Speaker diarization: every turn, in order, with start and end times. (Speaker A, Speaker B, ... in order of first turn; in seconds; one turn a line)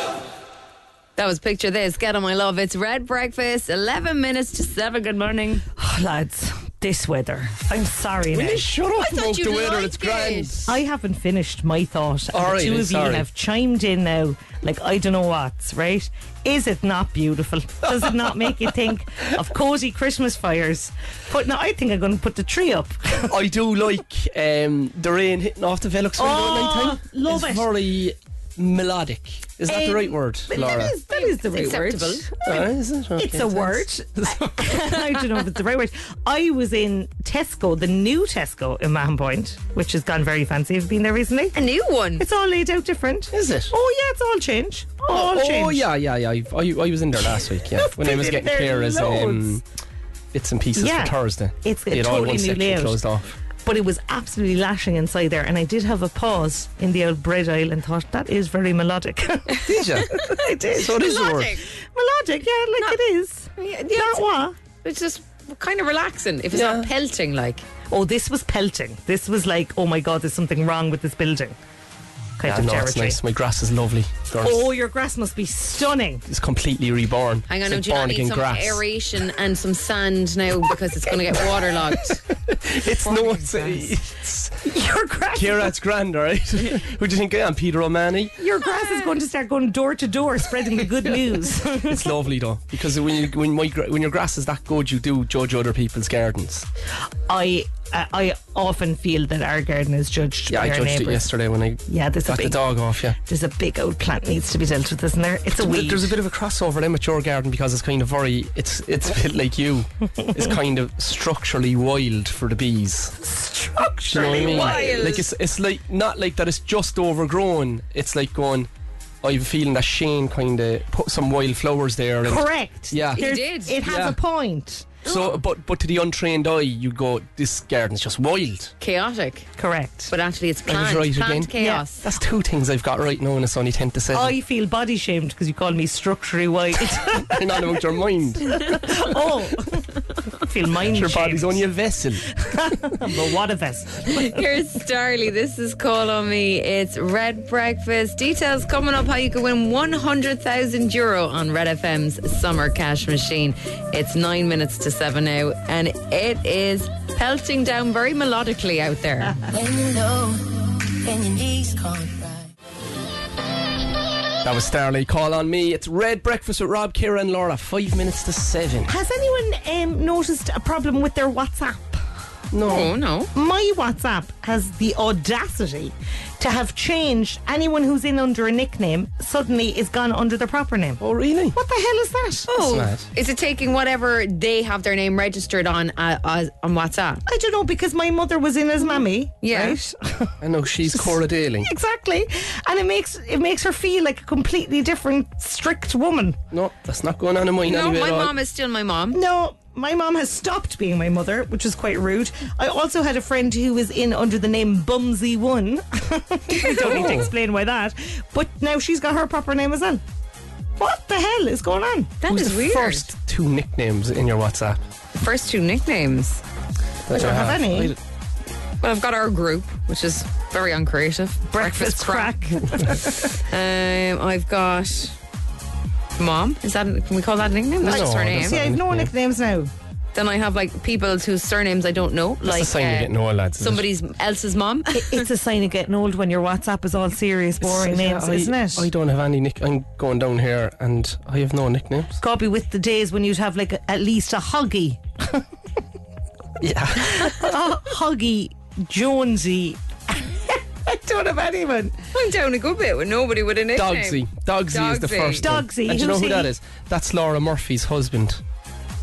Speaker A: 1.2-5.6
Speaker B: 5.7-8.7
Speaker C: 8.3-10.8
Speaker A: 9.0-10.6
Speaker B: 10.7-23.3
Speaker C: 12.3-13.2
Speaker C: 23.3-30.9
Speaker B: 26.2-27.7
Speaker B: 29.7-41.5
Speaker A: 31.1-32.3
Speaker C: 32.5-34.9
Speaker A: 41.5-42.2
Speaker B: 42.2-45.9
Speaker C: 43.3-43.7
Speaker C: 45.1-49.6
Speaker B: 47.7-49.5
Speaker C: 50.3-53.4
Speaker B: 50.8-53.0
Speaker B: 53.6-64.5
Speaker C: 59.6-61.5
Speaker A: 61.0-61.6
Speaker A: 63.6-64.3
Speaker A: 64.8-67.6
Speaker C: 66.5-66.9
Speaker B: 67.9-71.6
Speaker B: 72.4-73.2
Speaker C: 72.5-74.7
Speaker B: 74.4-76.2
Speaker C: 76.3-78.8
Speaker A: 77.5-82.2
Speaker C: 82.1-84.6
Speaker A: 83.0-83.9
Speaker B: 84.6-85.7
Speaker C: 85.3-88.4
Speaker B: 88.4-92.1
Speaker A: 88.7-89.0
Speaker C: 91.0-96.7
Speaker B: 97.3-101.2
Speaker C: 100.5-103.2
Speaker B: 101.9-102.7
Speaker B: 103.2-106.1
Speaker C: 105.6-113.2
Speaker B: 113.2-115.1
Speaker C: 114.1-118.7
Speaker A: 114.1-115.2
Speaker C: 119.2-123.3
Speaker B: 122.2-125.2
Speaker A: 123.1-123.8
Speaker C: 123.8-124.2
Speaker C: 125.0-128.7
Speaker A: 128.8-129.5
Speaker B: 129.6-130.1
Speaker A: 130.1-132.0
Speaker C: 130.7-134.3
Speaker B: 131.6-131.8
Speaker B: 134.1-137.7
Speaker C: 136.9-139.2
Speaker B: 138.4-141.6
Speaker C: 140.9-142.3
Speaker B: 142.4-144.4
Speaker A: 144.1-159.4
Speaker D: 159.5-162.5
Speaker C: 164.4-168.9
Speaker B: 168.9-172.0
Speaker C: 172.5-172.9
Speaker A: 172.7-173.3
Speaker B: 173.3-181.0
Speaker C: 181.0-181.6
Speaker B: 181.5-182.5
Speaker A: 182.5-187.2
Speaker C: 182.5-183.1
Speaker B: 187.3-190.3
Speaker A: 189.4-189.8
Speaker C: 190.4-191.7
Speaker B: 190.9-196.4
Speaker C: 196.5-198.3
Speaker A: 197.6-199.2
Speaker B: 199.1-210.0
Speaker C: 206.6-207.3
Speaker B: 210.8-212.2
Speaker A: 212.2-213.0
Speaker C: 212.3-214.8
Speaker A: 215.2-216.4
Speaker C: 217.1-218.0
Speaker B: 217.1-217.9
Speaker A: 218.8-222.5
Speaker B: 221.5-223.3
Speaker A: 223.3-225.1
Speaker A: 226.2-228.6
Speaker C: 227.8-229.1
Speaker B: 227.8-229.7
Speaker A: 230.1-235.2
Speaker C: 232.4-233.8
Speaker B: 234.9-238.9
Speaker C: 237.6-242.2
Speaker B: 242.2-245.4
Speaker C: 246.6-247.5
Speaker B: 247.0-252.0
Speaker A: 252.1-255.4
Speaker C: 253.8-258.4
Speaker B: 255.4-256.5